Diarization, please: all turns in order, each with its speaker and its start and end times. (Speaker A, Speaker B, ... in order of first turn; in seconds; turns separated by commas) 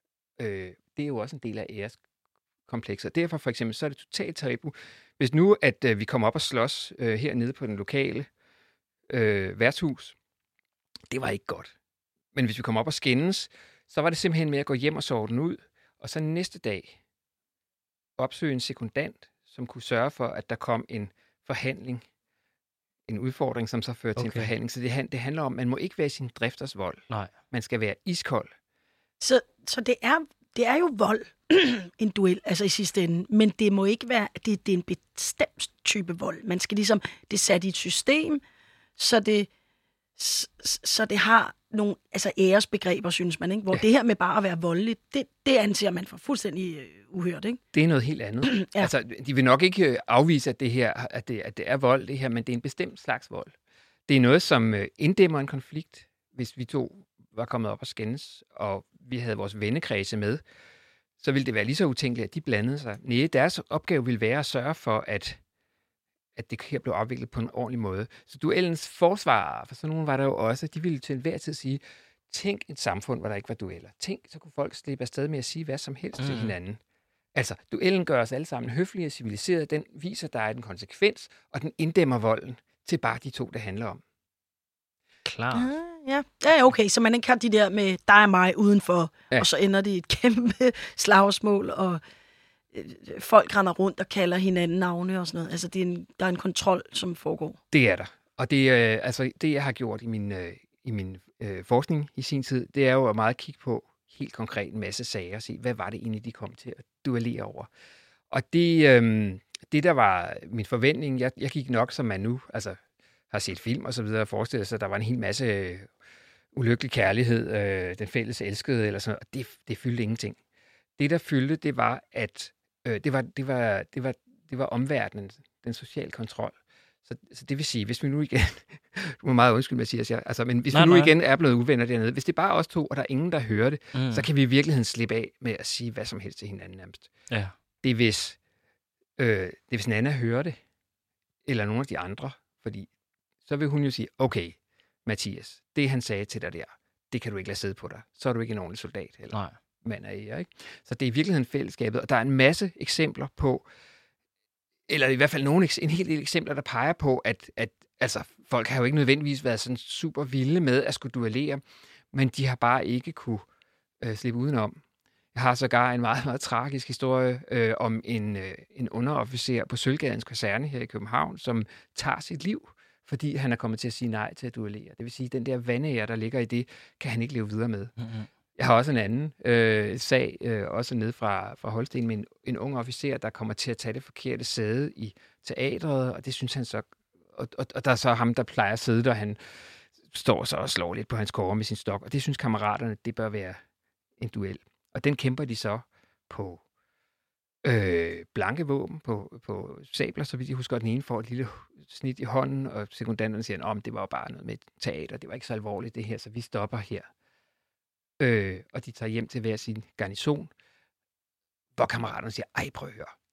Speaker A: 0.4-2.0, Speaker A: 2.7-8.3, Speaker A: 9.1-10.2, Speaker A: 11.1-11.7, Speaker A: 12.3-17.0, Speaker A: 18.2-22.0, Speaker A: 23.1-28.5, Speaker B: 24.2-24.5, Speaker C: 29.2-38.4, Speaker C: 39.0-39.5, Speaker C: 40.2-47.6, Speaker A: 47.7-53.5, Speaker C: 48.4-48.9, Speaker A: 54.1-60.4, Speaker A: 61.2-65.4, Speaker A: 66.4-76.8, Speaker B: 76.2-76.5, Speaker A: 77.3-84.0, Speaker B: 85.2-85.7, Speaker C: 85.5-92.0, Speaker C: 92.7-97.6, Speaker A: 97.7-107.7, Speaker A: 108.3-112.8, Speaker A: 113.3-115.9, Speaker A: 116.5-120.4, Speaker A: 121.0-137.1, Speaker B: 130.7-131.1, Speaker B: 133.9-134.3, Speaker B: 137.3-137.6, Speaker A: 137.8-138.4, Speaker A: 139.2-140.6, Speaker A: 141.4-142.9, Speaker A: 143.5-153.7, Speaker A: 154.9-163.5, Speaker A: 164.0-164.8, Speaker A: 165.3-177.9, Speaker B: 178.0-178.3, Speaker A: 178.6-193.6, Speaker A: 194.2-196.6, Speaker A: 197.6-207.1, Speaker A: 208.2-210.5, Speaker A: 211.8-213.1